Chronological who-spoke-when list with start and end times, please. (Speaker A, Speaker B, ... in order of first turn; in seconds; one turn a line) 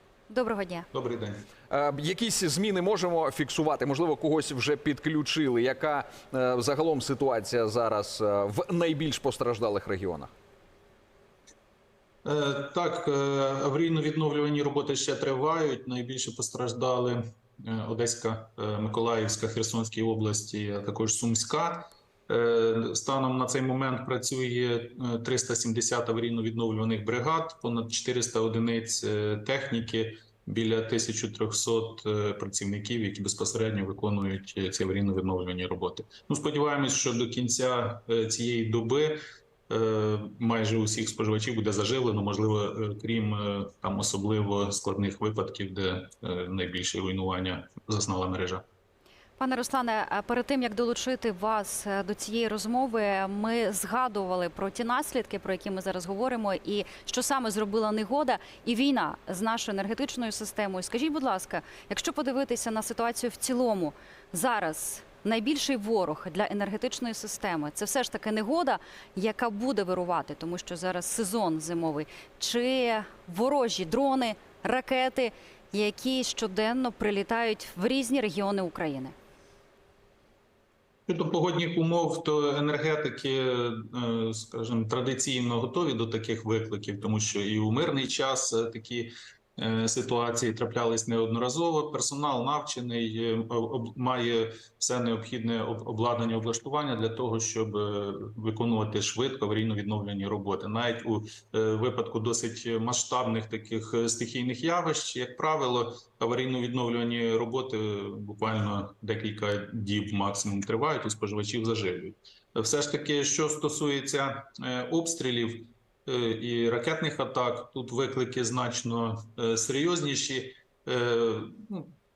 Speaker A: 0.3-0.9
Speaker B: 0.9-1.4
Speaker C: 1.7-10.3
Speaker B: 12.2-39.2
Speaker B: 39.7-48.6
Speaker A: 49.4-79.2
Speaker B: 81.1-121.9